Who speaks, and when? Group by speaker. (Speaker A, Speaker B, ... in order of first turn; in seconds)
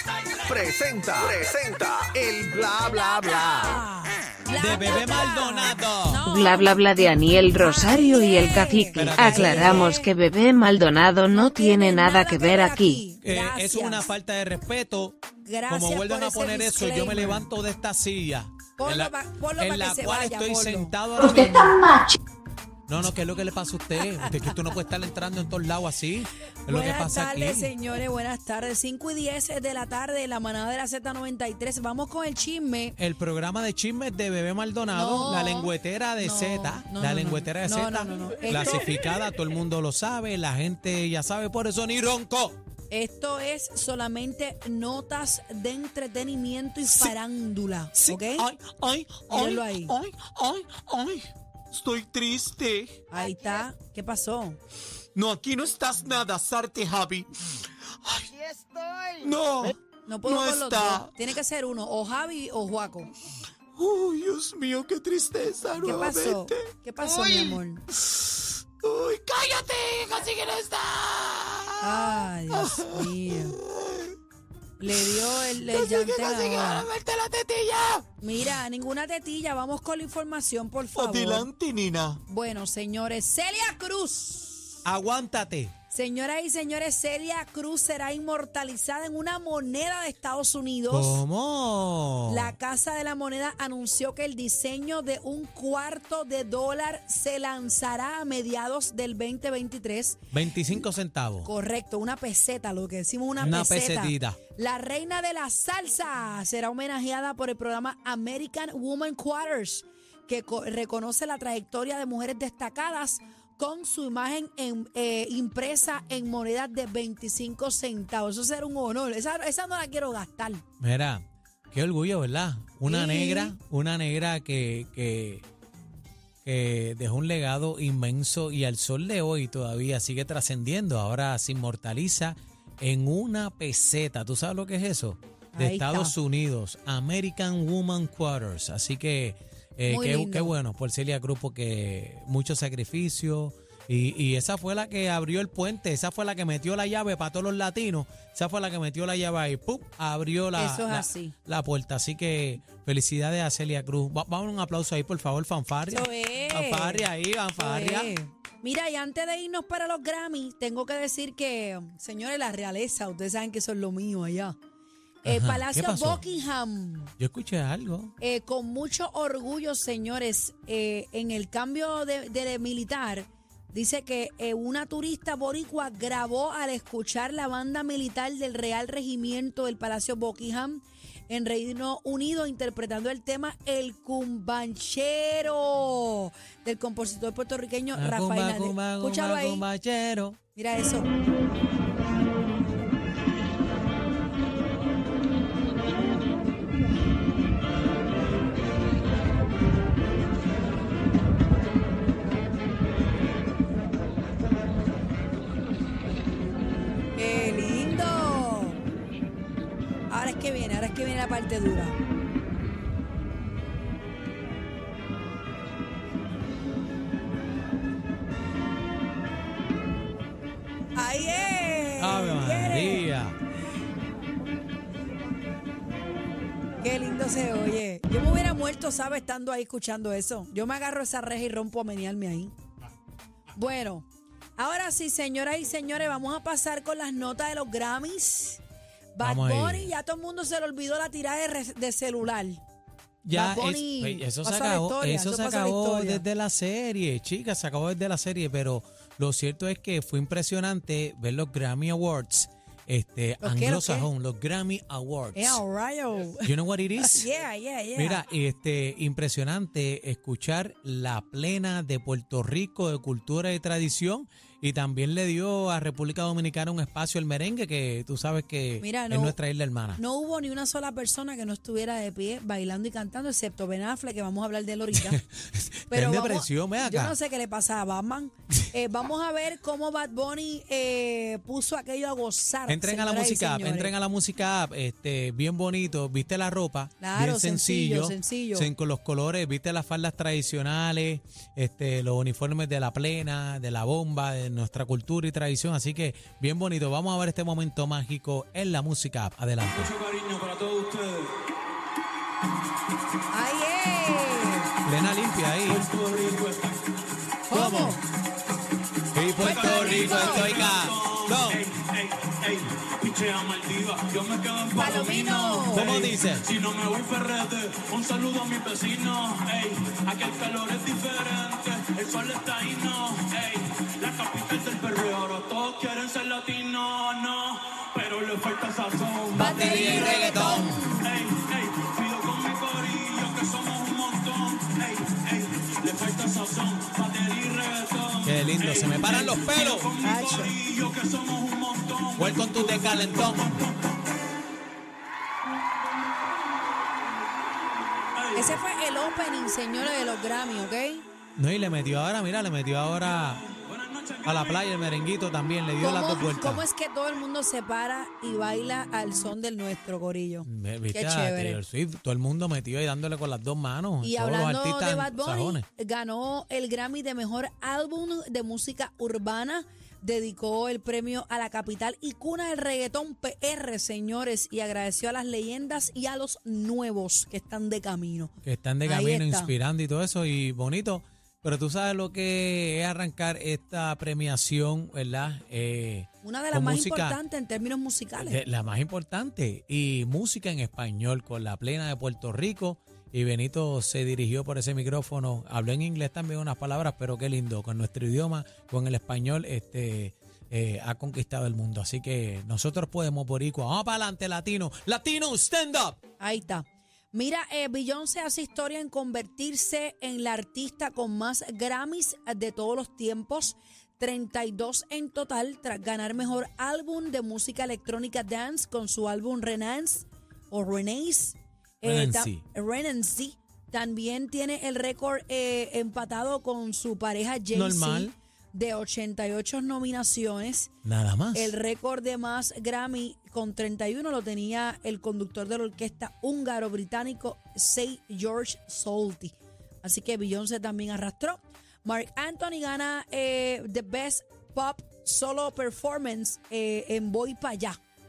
Speaker A: 0.3-3.8
Speaker B: 2.8-10.1, 11.3-14.1, 15.4-17.5, 18.8-20.9, 26.6-33.0, 34.9-38.9, 42.9-48.5, 49.3-50.0, 53.1-54.6, 60.0-63.1, 65.8-67.8, 71.8-73.6, 74.8-76.9, 78.2-81.5, 82.3-84.8, 85.9-91.2, 92.3-100.2, 101.4-120.6, 122.8-123.5, 135.5-136.1, 139.9-140.5, 150.5-151.3, 155.9-157.1, 157.6-164.6, 165.2-167.1, 168.2-189.6, 190.5-191.1, 207.2-208.8, 210.1-212.0, 220.9-223.1, 226.8-232.5, 233.5-234.1, 234.6-238.6, 239.2-242.6, 243.3-246.2, 253.4-254.1, 255.3-258.2, 268.8-269.4, 270.0-275.2, 275.9-283.9, 287.0-288.7, 303.3-304.7, 307.5-308.0, 309.4-310.5, 314.7-316.0, 329.3-331.1, 340.0-340.5, 348.3-351.0, 355.8-361.6, 364.0-378.3, 378.8-379.5, 386.2-388.4, 406.2-430.7, 431.3-447.8
Speaker C: 4.5-6.2, 8.9-9.9, 13.2-21.8, 22.9-27.7, 33.0-42.6, 46.8-47.1, 48.0-53.0, 55.1-57.3, 59.2-61.1, 63.8-67.5, 68.8-74.0, 75.1-78.0, 80.9-82.2, 84.8-85.7, 90.9-92.5, 100.3-101.5, 103.4-104.4, 120.8-125.4, 126.4-158.1, 165.2-166.2, 167.2-168.1, 187.9-190.4, 222.0-223.3, 239.2-239.9, 243.2-255.6, 256.4-257.3, 257.9-270.0, 274.9-277.2, 282.7-299.9, 304.8-305.9, 307.5-308.0, 309.1-311.6, 315.7-316.5, 329.3-330.8, 338.2-339.9, 342.1-343.6, 351.4-353.5, 354.2-356.6, 360.4-365.6, 378.4-387.2, 388.2-406.0, 421.8-422.4, 427.5-428.1, 430.8-431.5
Speaker D: 6.3-13.0, 21.2-22.1
Speaker E: 299.7-301.4, 305.6-306.8, 309.4-343.7, 348.1-348.6, 353.6-354.7